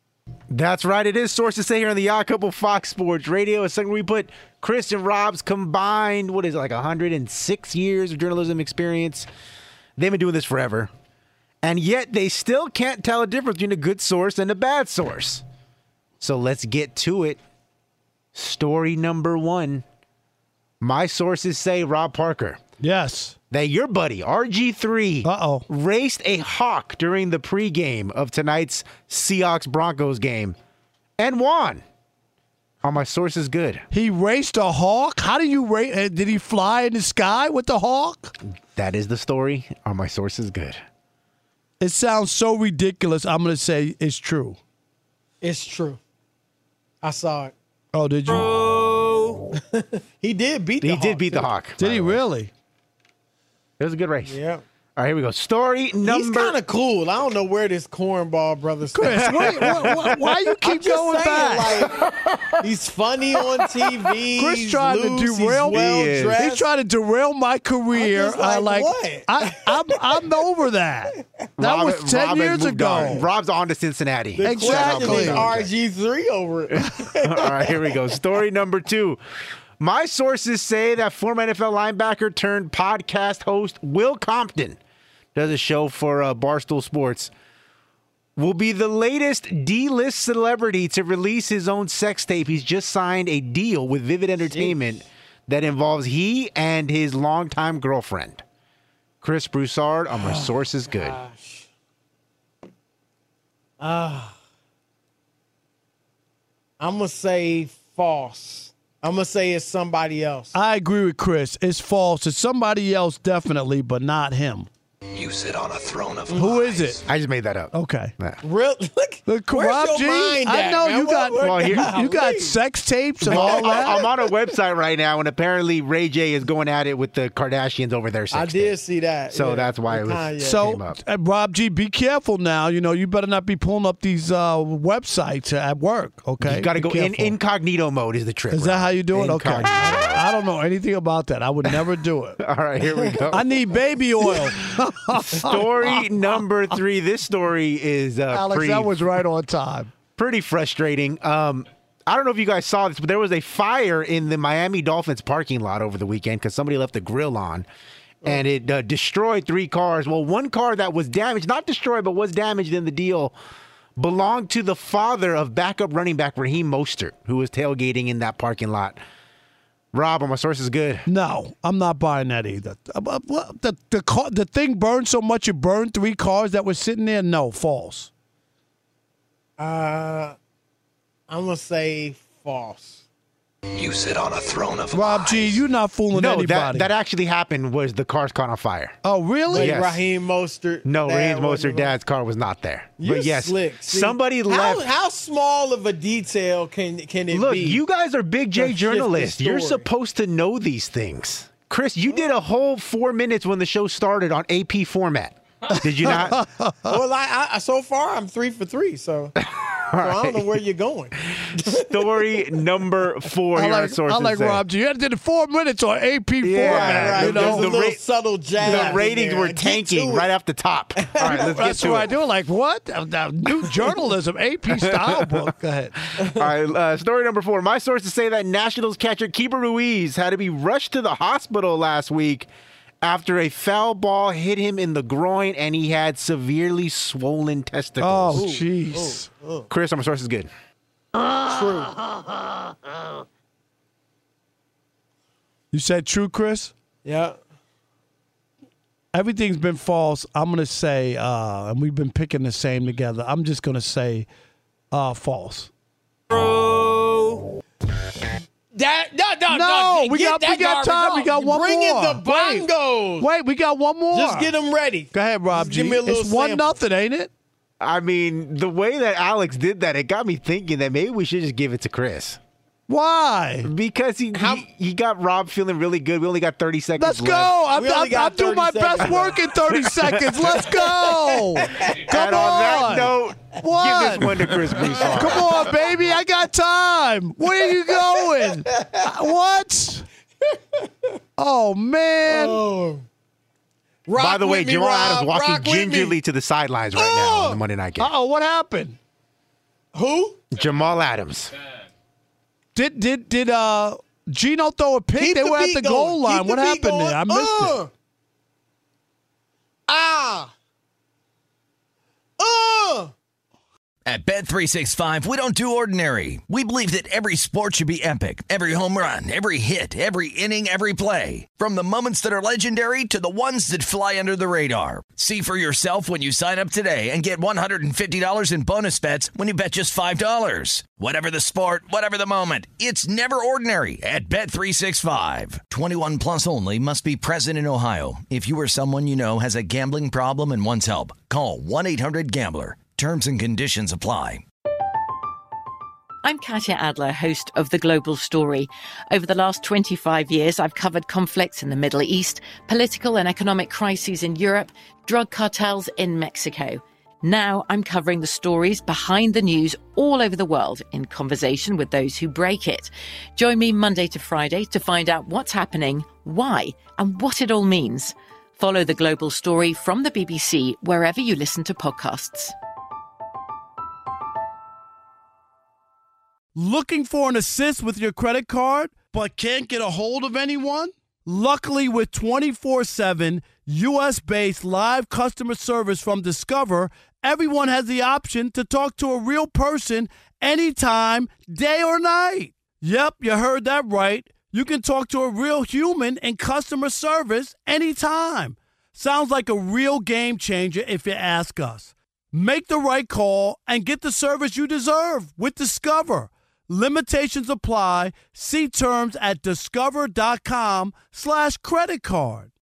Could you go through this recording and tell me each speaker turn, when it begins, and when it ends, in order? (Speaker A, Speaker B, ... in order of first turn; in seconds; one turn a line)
Speaker A: 0.5-9.3
Speaker A: 10.0-10.9
Speaker A: 11.6-15.4
Speaker A: 16.2-17.4
Speaker A: 18.4-19.8
Speaker A: 20.8-22.6
Speaker B: 22.8-23.4
Speaker A: 23.5-30.6
Speaker B: 25.2-25.6
Speaker A: 31.2-31.8
Speaker A: 32.8-33.8
Speaker B: 33.9-38.3
Speaker A: 38.8-40.8
Speaker B: 41.8-44.6
Speaker C: 45.4-46.0
Speaker C: 47.0-47.5
Speaker B: 47.9-49.3
Speaker C: 49.7-51.5
Speaker A: 50.8-52.2
Speaker B: 51.8-52.5
Speaker A: 53.8-54.4
Speaker C: 54.3-54.6
Speaker A: 55.0-56.5
Speaker C: 56.0-60.0
Speaker B: 58.9-61.8
Speaker A: 59.1-60.0
Speaker C: 60.6-62.0
Speaker C: 62.6-66.7
Speaker B: 64.4-65.8
Speaker A: 65.7-66.4
Speaker B: 66.4-73.3
Speaker C: 68.0-69.3
Speaker A: 71.6-75.7
Speaker C: 74.4-77.8
Speaker B: 74.4-75.5
Speaker A: 77.2-79.2
Speaker A: 79.8-84.8
Speaker A: 85.3-87.3
Speaker A: 88.4-98.4
Speaker C: 94.5-94.8
Speaker A: 99.2-101.2
Speaker C: 100.1-101.7
Speaker C: 103.8-104.4
Speaker C: 106.8-110.5
Speaker B: 110.5-114.7
Speaker D: 115.1-117.0
Speaker C: 116.3-116.6
Speaker B: 116.4-117.0
Speaker A: 117.1-118.4
Speaker B: 117.7-118.1
Speaker C: 118.4-122.6
Speaker B: 119.3-124.0
Speaker A: 121.4-122.0
Speaker C: 123.2-124.5
Speaker A: 123.3-128.7
Speaker C: 128.3-130.6
Speaker A: 129.3-131.0
Speaker B: 130.4-137.3
Speaker A: 136.4-140.2
Speaker B: 138.5-142.4
Speaker A: 142.4-143.4
Speaker B: 143.3-146.1
Speaker A: 145.3-148.9
Speaker B: 148.3-149.9
Speaker A: 150.2-157.7
Speaker A: 158.2-163.3
Speaker A: 164.0-169.0
Speaker A: 169.9-171.0
Speaker B: 171.1-178.1
Speaker C: 179.6-180.4
Speaker C: 181.3-183.1
Speaker D: 183.7-185.5
Speaker B: 184.9-186.9
Speaker A: 186.1-189.0
Speaker B: 189.0-189.7
Speaker A: 189.5-190.0
Speaker C: 189.5-191.9
Speaker A: 190.8-194.8
Speaker C: 193.0-197.8
Speaker A: 197.3-206.4
Speaker C: 198.6-199.8
Speaker B: 206.1-207.0
Speaker C: 206.9-209.3
Speaker A: 209.9-210.6
Speaker C: 209.9-212.4
Speaker A: 211.9-214.6
Speaker B: 213.6-217.7
Speaker A: 216.4-218.0
Speaker C: 216.7-220.3
Speaker A: 218.6-222.1
Speaker B: 218.6-219.0
Speaker C: 221.1-221.8
Speaker B: 221.4-226.0
Speaker A: 224.8-225.3
Speaker A: 226.4-232.5
Speaker A: 233.0-238.5
Speaker B: 238.0-239.3
Speaker C: 238.3-239.7
Speaker A: 239.7-240.5
Speaker C: 241.4-242.0
Speaker B: 245.7-246.7
Speaker C: 247.0-247.4
Speaker B: 249.1-254.3
Speaker B: 254.9-255.7
Speaker C: 258.7-263.3
Speaker B: 259.5-262.7
Speaker B: 263.2-264.5
Speaker C: 264.1-266.8
Speaker B: 265.1-267.3
Speaker A: 267.8-272.4
Speaker B: 272.9-273.7
Speaker A: 273.6-277.6
Speaker C: 274.4-274.6
Speaker B: 277.0-284.4
Speaker C: 277.7-279.4
Speaker C: 281.2-281.9
Speaker A: 282.1-285.6
Speaker B: 285.0-290.1
Speaker B: 291.4-292.6
Speaker C: 292.3-293.0
Speaker C: 294.1-296.2
Speaker A: 294.2-298.1
Speaker C: 297.0-297.6
Speaker B: 298.0-299.0
Speaker C: 299.9-300.4
Speaker A: 300.5-301.5
Speaker B: 302.8-307.8
Speaker C: 305.2-307.9
Speaker C: 309.9-310.5
Speaker C: 312.4-313.1
Speaker E: 314.1-344.4
Speaker F: 346.2-372.5
Speaker B: 376.6-412.5